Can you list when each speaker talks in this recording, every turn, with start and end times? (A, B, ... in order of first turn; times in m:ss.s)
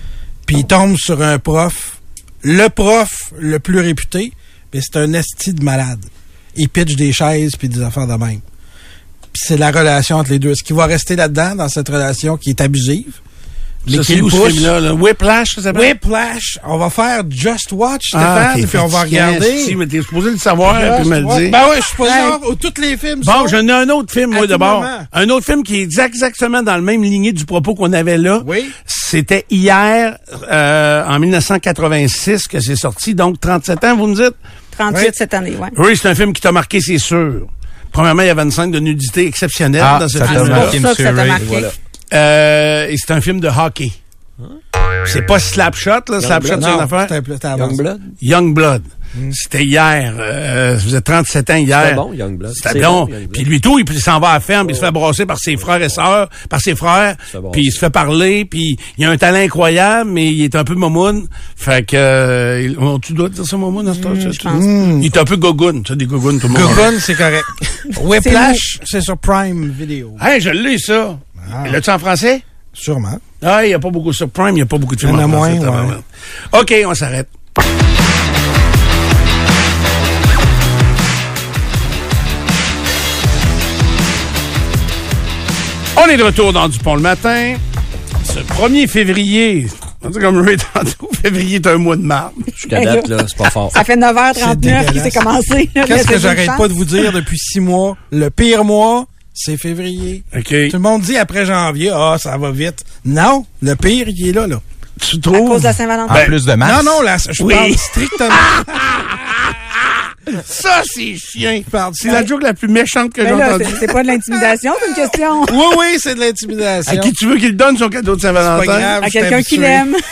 0:00.4-0:08.4 A
0:09.3-0:13.2 A
0:13.8-0:14.7 A
0:13.9-0:15.9 B
0:15.7-0:19.8 A
0:18.1-0:22.4 B
0:20.6-0:23.6 A
0:23.2-0:34.4 B
0:24.3-0:25.0 A
0:28.4-0:28.7 A
0:34.7-0:35.8 C
0:35.7-0:40.8 B
0:39.8-0:41.4 D
0:40.2-0:41.7 C
0:41.3-0:41.8 E
0:42.1-0:44.0 B
0:45.0-0:47.1 B
0:46.2-0:46.7 E
0:46.5-0:47.8 A
0:47.5-0:48.1 E
0:48.2-0:52.0 B
0:51.7-0:53.4 E
0:52.6-1:06.9 B
0:54.6-0:54.9 E
0:55.6-0:56.0 E
0:57.3-0:57.8 E
1:03.8-1:04.7 C
1:04.5-1:05.1 A
1:06.5-1:10.2 A
1:08.2-1:08.6 C
1:10.2-1:12.4 B
1:11.4-1:11.8 A
1:12.7-1:13.2 A
1:13.4-1:17.3 B
1:15.0-1:16.0 A
1:25.9-1:27.6 B
1:28.2-1:32.5 B
1:32.6-1:33.8 E
1:32.7-1:33.1 C
1:33.7-1:36.7 C
1:34.3-1:35.3 A
1:35.8-1:44.6 A
1:40.3-1:40.8 B
1:45.0-1:46.4 B
1:45.3-1:46.3 C
1:46.1-1:47.0 D
1:46.6-1:48.6 A
1:47.4-1:53.9 B
1:51.7-1:52.3 A
1:53.2-1:55.6 C
1:55.4-1:57.1 A
1:56.8-1:58.9 B
1:58.4-1:59.9 A
1:59.0-2:00.0 C